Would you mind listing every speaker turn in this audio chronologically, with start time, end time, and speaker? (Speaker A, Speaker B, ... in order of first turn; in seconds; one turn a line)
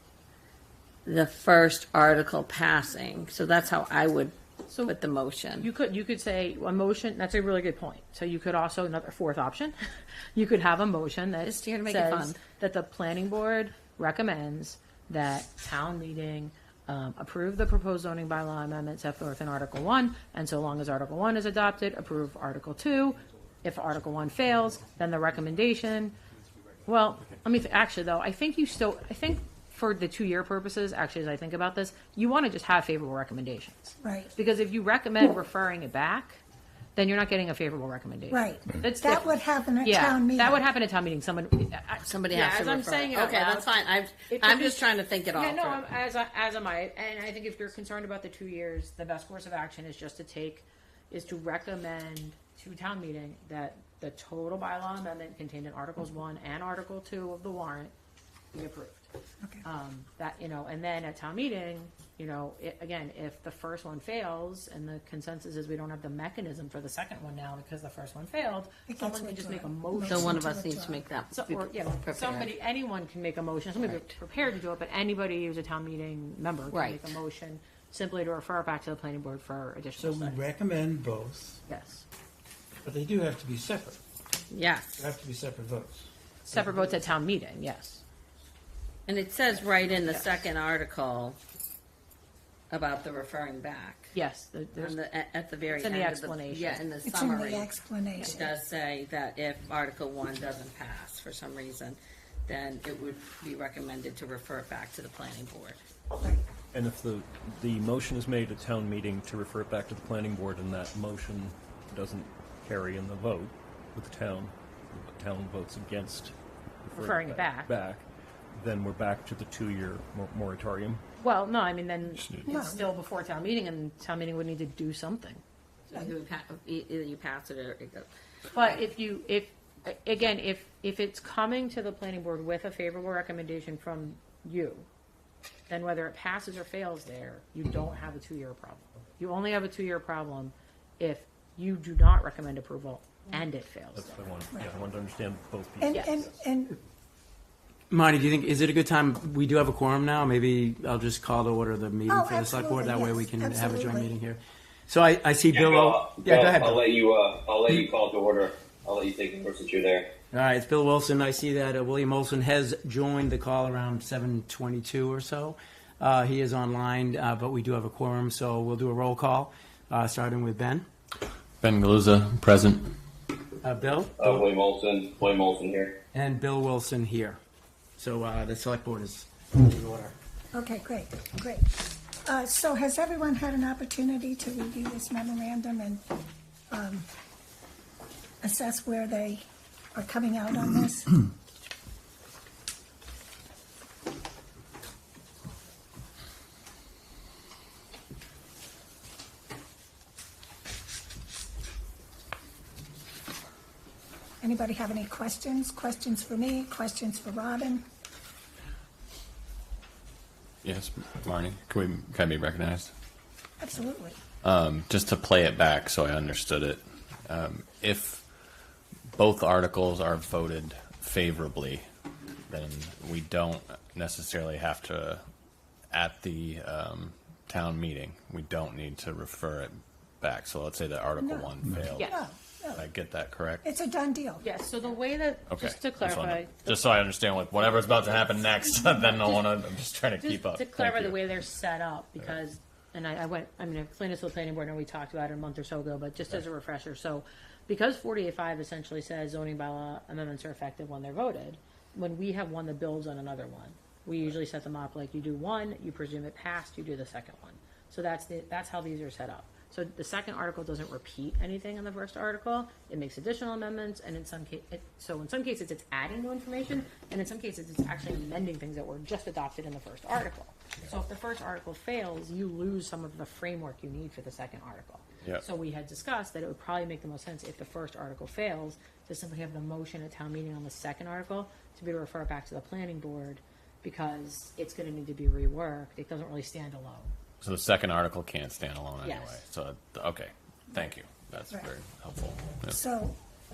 Speaker A: 1.1-5.7
Speaker B: 4.7-4.9
Speaker B: 5.6-9.7
Speaker B: 10.3-26.1
Speaker A: 11.4-12.4
Speaker B: 26.9-36.4
Speaker C: 34.0-34.3
Speaker B: 36.9-39.3
Speaker C: 38.3-40.6
Speaker B: 39.8-43.7
Speaker A: 42.0-45.8
Speaker B: 44.3-44.8
Speaker B: 45.3-57.9
Speaker B: 58.5-59.1
Speaker B: 59.6-70.4
Speaker C: 68.9-71.0
Speaker A: 70.1-72.5
Speaker B: 71.3-80.5
Speaker A: 73.8-74.1
Speaker A: 76.7-77.1
Speaker D: 80.0-81.6
Speaker B: 81.7-82.0
Speaker D: 82.8-84.0
Speaker A: 84.5-84.9
Speaker D: 85.0-86.1
Speaker B: 86.5-88.0
Speaker A: 89.1-91.4
Speaker A: 92.7-94.1
Speaker B: 94.1-95.0
Speaker A: 94.7-97.7
Speaker B: 95.7-96.8
Speaker C: 97.0-98.5
Speaker A: 98.2-105.8
Speaker E: 106.7-121.0
Speaker B: 116.9-117.7
Speaker B: 121.2-125.4
Speaker C: 122.5-122.8
Speaker A: 126.0-128.1
Speaker B: 128.5-134.9
Speaker B: 135.7-144.2
Speaker E: 143.9-146.4
Speaker C: 145.8-146.8
Speaker F: 147.9-156.8
Speaker C: 152.1-154.1
Speaker G: 155.5-160.1
Speaker F: 160.3-170.9
Speaker H: 171.6-172.9
Speaker F: 173.6-174.4
Speaker G: 174.2-175.9
Speaker F: 176.1-177.4
Speaker F: 178.0-180.1
Speaker C: 180.5-186.1
Speaker C: 186.7-187.1
Speaker C: 188.4-189.4
Speaker C: 189.9-191.1
Speaker C: 204.4-207.8
Speaker H: 210.6-212.9
Speaker C: 213.6-214.2
Speaker H: 214.4-218.2
Speaker H: 219.2-221.8
Speaker H: 222.5-225.2
Speaker H: 225.9-232.2
Speaker C: 231.2-232.9
Speaker B: 231.9-232.2
Speaker H: 232.7-233.6
Speaker C: 233.6-234.4
Speaker B: 234.4-236.8
Speaker H: 235.5-241.2
Speaker B: 240.2-287.1
Speaker H: 287.4-292.8
Speaker B: 289.0-289.4
Speaker C: 292.7-293.1